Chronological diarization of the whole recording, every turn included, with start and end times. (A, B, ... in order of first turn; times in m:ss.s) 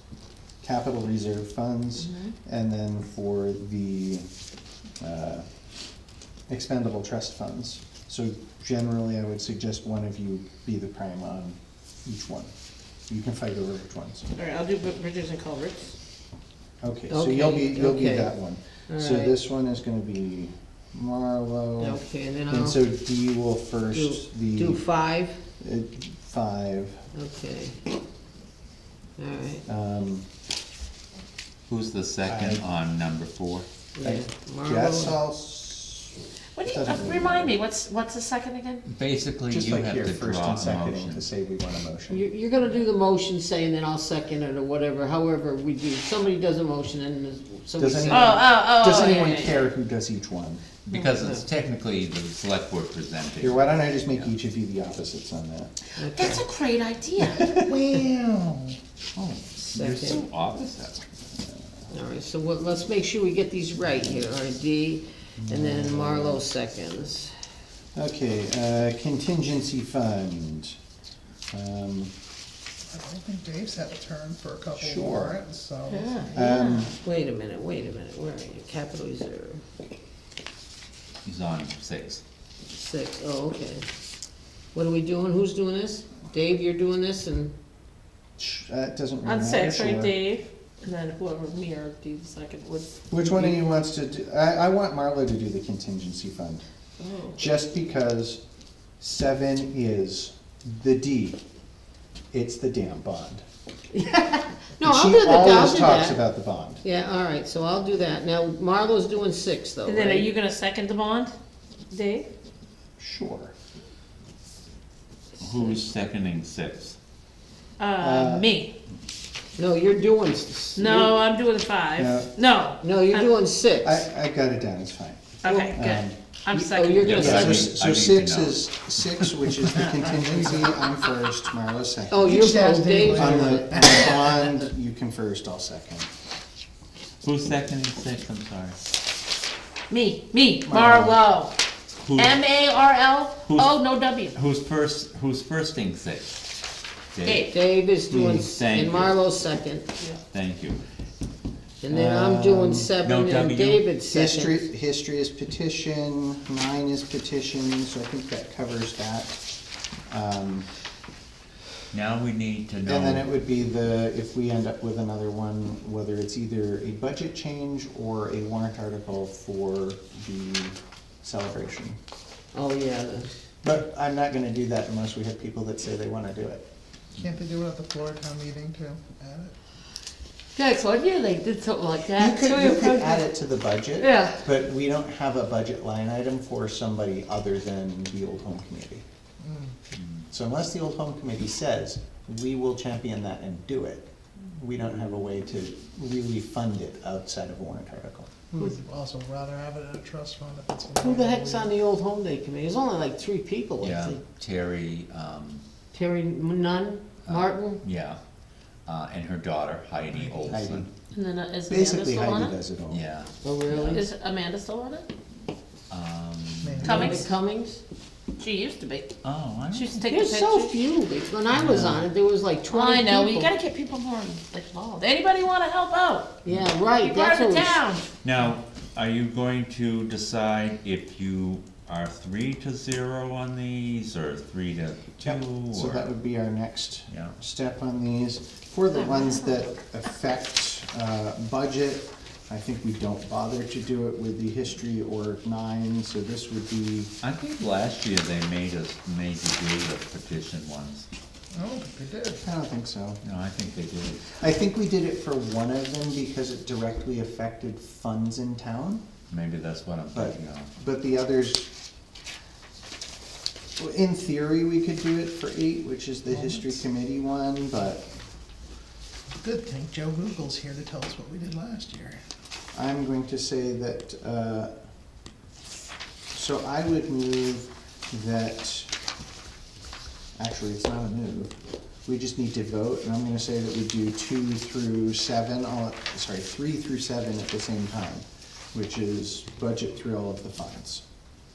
0:00.6-0:04.3 A
0:02.0-0:02.3 B
0:05.0-0:05.5 A
0:06.5-0:12.5 A
0:13.1-0:14.3 A
0:14.4-0:16.0 B
0:16.8-0:24.8 A
0:17.1-0:18.3 C
0:18.9-0:19.4 C
0:21.8-0:22.8 C
0:23.9-0:25.4 C
0:25.6-0:27.0 A
0:27.1-0:27.8 C
0:29.2-0:29.6 C
0:29.6-0:30.2 A
0:31.7-0:33.7 D
0:32.3-0:32.6 A
0:34.0-0:35.2 C
0:34.0-0:37.6 A
0:36.6-0:38.8 B
0:38.8-0:41.3 D
0:39.5-0:42.2 A
0:42.1-0:48.5 C
0:47.8-0:50.6 A
0:48.0-0:49.7 B
0:50.8-0:54.3 D
0:50.9-0:51.4 C
0:53.4-0:55.7 A
0:56.0-0:57.5 B
0:56.0-0:56.4 C
0:57.2-0:57.8 A
0:57.6-0:58.8 E
0:59.2-1:01.0 D
0:59.6-1:00.2 C
1:01.9-1:07.3 C
1:05.4-1:06.4 A
1:07.9-1:10.8 A
1:11.5-1:12.1 A
1:12.9-1:16.3 E
1:14.8-1:15.4 A
1:15.9-1:16.9 B
1:16.3-1:17.0 A
1:16.9-1:19.6 C
1:21.2-1:22.2 D
1:22.7-1:23.8 C
1:24.7-1:27.5 C
1:28.4-1:30.1 A
1:29.2-1:32.9 B
1:33.1-1:36.6 A
1:33.2-1:33.6 C
1:37.0-1:37.4 B
1:37.3-1:38.4 A
1:39.0-1:41.4 A
1:42.3-1:43.4 A
1:44.0-1:46.2 C
1:44.8-1:46.8 A
1:46.8-1:50.3 C
1:49.8-1:51.3 B
1:51.9-1:52.3 B
1:53.0-1:53.5 A
1:55.4-1:57.0 D
1:57.8-1:58.7 B
1:58.0-1:58.5 A
1:59.6-2:01.2 C
2:00.7-2:03.3 B
2:02.0-2:02.3 A
2:02.8-2:04.0 C
2:03.8-2:12.5 A
2:05.4-2:07.4 B
2:06.6-2:07.7 C
2:07.0-2:08.6 D
2:09.8-2:10.7 E
2:12.1-2:13.7 C
2:12.2-2:14.6 E
2:13.0-2:16.1 A
2:17.2-2:18.8 D
2:19.9-2:21.5 B
2:20.6-2:21.2 A
2:22.0-2:22.4 D
2:22.1-2:24.4 B
2:23.4-2:26.4 D
2:27.1-2:27.5 D
2:27.2-2:27.5 B
2:27.5-2:29.8 C
2:28.1-2:28.5 A
2:28.4-2:29.3 D
2:30.3-2:30.8 D
2:31.8-2:34.7 C
2:31.9-2:32.9 A
2:33.0-2:33.8 D
2:34.1-2:39.5 A
2:40.1-2:40.7 A
2:41.9-2:43.3 D
2:42.8-2:52.0 A
2:52.5-2:53.3 C
2:53.6-2:56.6 A
2:57.2-2:59.5 E
3:00.6-3:03.2 B
3:02.1-3:09.0 A
3:04.0-3:04.4 C
3:09.4-3:09.7 E
3:09.9-3:10.2 D
3:10.3-3:18.3 A
3:18.5-3:21.7 E
3:21.0-3:24.2 C
3:23.8-3:25.6 D
3:25.9-3:27.8 C
3:27.2-3:28.2 D
3:28.8-3:30.9 D
3:30.1-3:30.6 E
3:30.5-3:30.9 A
3:31.1-3:32.6 B
3:31.7-3:33.0 A
3:32.9-3:34.1 D
3:33.4-3:34.1 C
3:33.9-3:35.1 B
3:35.9-3:36.9 D
3:36.6-3:37.3 E
3:36.8-3:37.3 B
3:36.8-3:37.8 C
3:38.4-3:39.1 B
3:39.2-3:40.1 D
3:39.7-3:40.8 B
3:40.1-3:43.5 C
3:41.6-3:42.0 D
3:42.7-3:46.4 B
3:46.4-3:47.8 C
3:47.0-3:48.1 B
3:48.2-3:56.1 D
3:55.2-4:07.1 A
3:57.1-3:57.4 D
4:07.2-4:11.1 D
4:11.5-4:12.4 E
4:12.4-4:13.2 A
4:13.2-4:14.4 D
4:14.4-4:19.0 A
4:19.3-4:20.7 D
4:20.1-4:21.7 A
4:23.8-4:28.0 A
4:26.3-4:26.8 E
4:29.4-4:32.2 E
4:32.7-4:34.7 A
4:36.3-4:38.9 A
4:40.4-4:41.5 A
4:42.1-4:51.0 A